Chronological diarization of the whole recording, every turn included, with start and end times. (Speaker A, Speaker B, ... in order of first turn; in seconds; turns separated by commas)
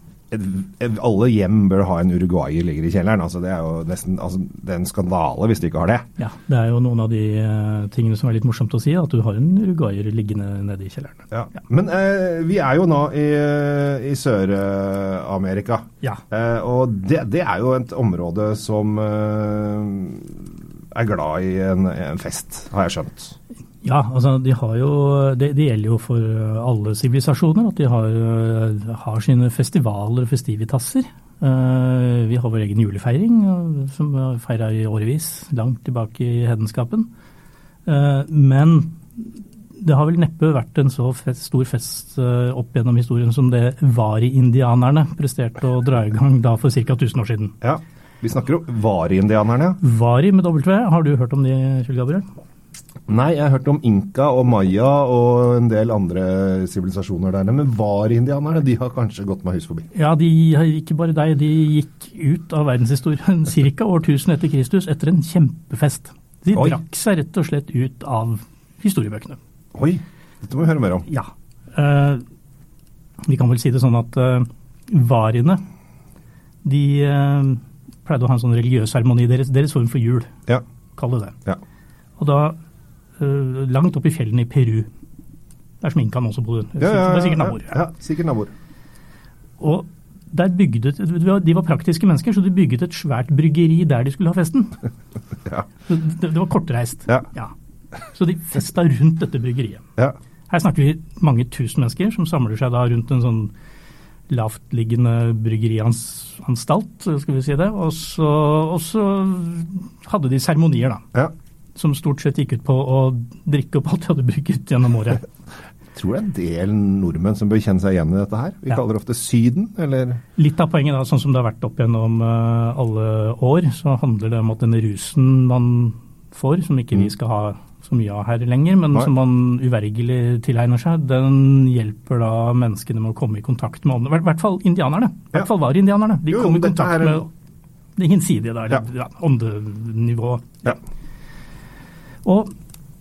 Speaker A: 0.3-6.1, Speaker B: 6.2-11.3, Speaker A: 11.3-23.4, Speaker B: 23.8-37.1, Speaker B: 37.9-47.5, Speaker A: 47.6-49.8, Speaker B: 49.8-52.2, Speaker A: 53.1-59.9, Speaker B: 59.9-69.4, Speaker A: 69.8-71.1, Speaker B: 71.1-72.2, Speaker B: 73.2-75.6, Speaker B: 76.6-80.3, Speaker B: 81.0-81.4, Speaker B: 82.2-82.6, Speaker B: 83.2-84.9, Speaker B: 85.8-87.8, Speaker A: 86.8-88.5, Speaker B: 89.6-94.8, Speaker B: 95.9-97.5, Speaker B: 98.1-99.8, Speaker B: 100.5-103.5, Speaker B: 104.3-111.0, Speaker B: 111.8-115.3, Speaker A: 116.0-120.2, Speaker B: 120.4-137.3, Speaker A: 136.3-137.3, Speaker B: 138.0-140.8, Speaker B: 142.2-142.5